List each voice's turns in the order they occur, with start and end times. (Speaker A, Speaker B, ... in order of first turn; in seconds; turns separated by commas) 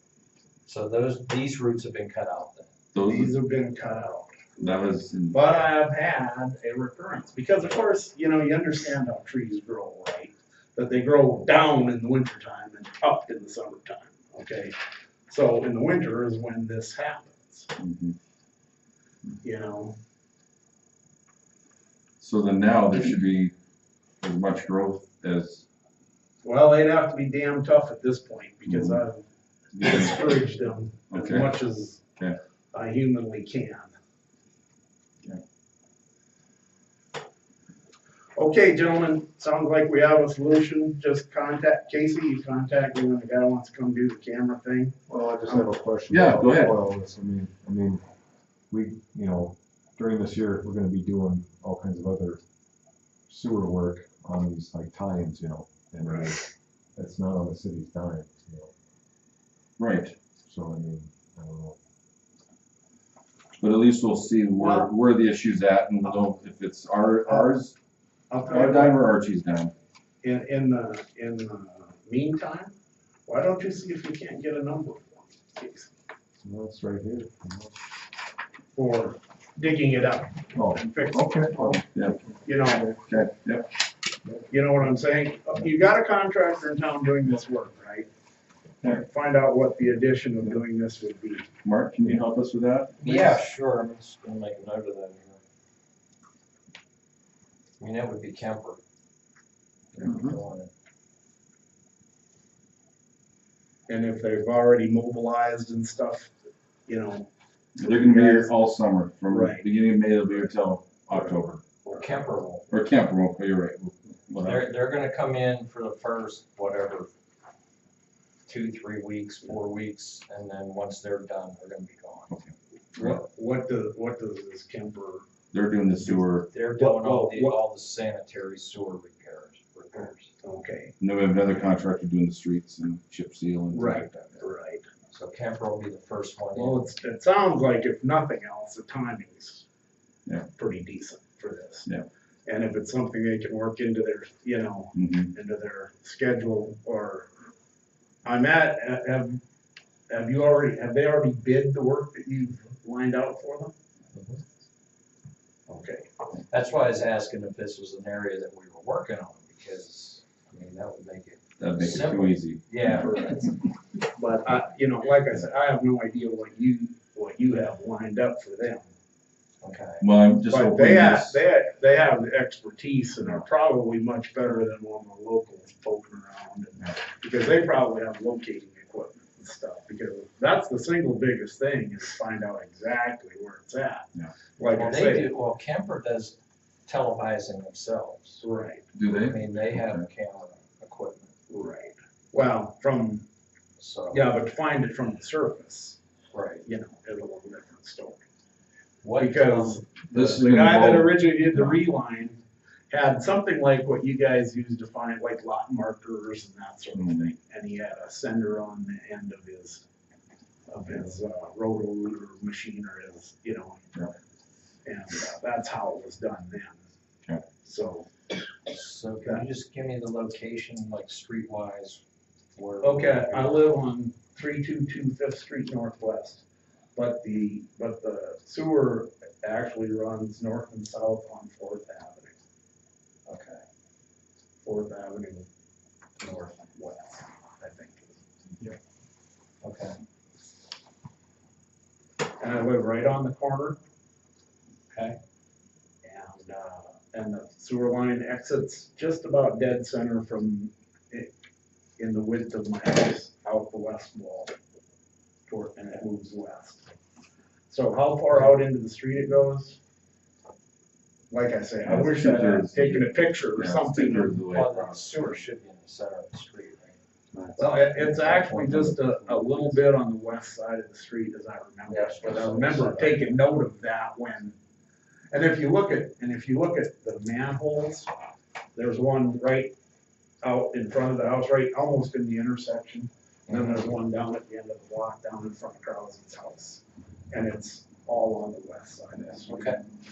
Speaker A: 0.7-2.7, Speaker B: 2.9-3.3, Speaker C: 3.1-14.8, Speaker B: 4.6-5.4, Speaker C: 15.3-17.7, Speaker B: 17.8-18.2, Speaker C: 19.4-20.0, Speaker B: 22.2-23.5, Speaker B: 24.2-25.6, Speaker C: 26.4-29.2, Speaker B: 28.7-29.0, Speaker B: 29.7-30.3, Speaker C: 29.8-32.0, Speaker B: 31.1-31.6, Speaker C: 32.7-33.9, Speaker C: 38.4-45.0, Speaker D: 45.1-48.0, Speaker C: 45.5-45.7, Speaker B: 46.1-46.8, Speaker D: 48.7-52.4, Speaker D: 53.3-58.7, Speaker C: 56.0-56.3, Speaker B: 59.8-60.2, Speaker D: 60.5-61.8, Speaker B: 63.6-67.7, Speaker C: 64.6-64.9, Speaker C: 68.3-69.0, Speaker B: 68.5-69.7, Speaker C: 70.2-72.8, Speaker C: 73.3-75.9, Speaker D: 76.4-77.8, Speaker C: 78.8-81.3, Speaker D: 80.5-83.0, Speaker B: 81.9-82.2, Speaker C: 82.5-82.9, Speaker B: 83.1-83.7, Speaker C: 84.5-88.1, Speaker C: 88.9-91.5, Speaker B: 91.6-93.4, Speaker A: 93.0-95.4, Speaker A: 97.8-98.8, Speaker A: 99.9-100.7, Speaker B: 100.0-100.3, Speaker C: 103.9-106.3, Speaker C: 106.9-108.5, Speaker B: 107.8-111.6, Speaker C: 109.3-109.7, Speaker C: 111.1-112.2, Speaker A: 111.9-112.7, Speaker B: 112.7-114.7, Speaker A: 114.4-117.1, Speaker A: 118.5-122.3, Speaker C: 123.0-125.3, Speaker B: 125.5-126.5, Speaker A: 126.5-130.3, Speaker C: 126.8-127.6, Speaker C: 130.4-130.9, Speaker B: 131.0-134.5, Speaker C: 133.7-134.8, Speaker A: 135.1-136.8, Speaker C: 136.5-139.7, Speaker C: 140.6-141.9, Speaker C: 142.5-147.3, Speaker B: 144.9-145.3, Speaker C: 148.2-149.4, Speaker C: 150.1-153.7, Speaker A: 154.1-154.4, Speaker C: 155.7-156.1, Speaker A: 156.5-163.5, Speaker B: 161.6-163.2, Speaker C: 163.1-163.4, Speaker C: 164.1-168.9, Speaker A: 169.6-170.1, Speaker B: 170.0-171.4, Speaker C: 170.5-185.3, Speaker A: 184.7-188.4, Speaker C: 188.4-188.8, Speaker B: 188.9-190.0, Speaker A: 189.1-191.3, Speaker C: 191.5-193.2, Speaker A: 193.8-194.3, Speaker C: 194.1-196.0, Speaker A: 196.3-196.7, Speaker C: 196.6-198.2, Speaker A: 199.0-199.8, Speaker C: 199.2-209.8, Speaker B: 200.1-201.8, Speaker B: 206.9-207.3, Speaker C: 210.7-213.9, Speaker C: 214.8-216.8, Speaker C: 217.6-218.1, Speaker A: 218.7-222.0, Speaker A: 222.6-223.7, Speaker C: 222.8-226.4, Speaker C: 226.9-232.4, Speaker A: 233.3-233.6, Speaker C: 234.6-235.5, Speaker C: 236.2-238.2, Speaker A: 239.6-240.0, Speaker C: 242.4-243.8, Speaker C: 246.0-251.3, Speaker C: 252.0-254.6, Speaker C: 255.5-256.9, Speaker C: 257.7-259.8, Speaker C: 261.3-264.4, Speaker B: 261.8-265.4, Speaker A: 264.5-269.9, Speaker C: 267.6-274.6, Speaker A: 271.9-273.3, Speaker C: 275.3-278.1, Speaker C: 278.8-279.8, Speaker C: 280.4-289.8, Speaker A: 283.5-283.9, Speaker A: 289.5-289.8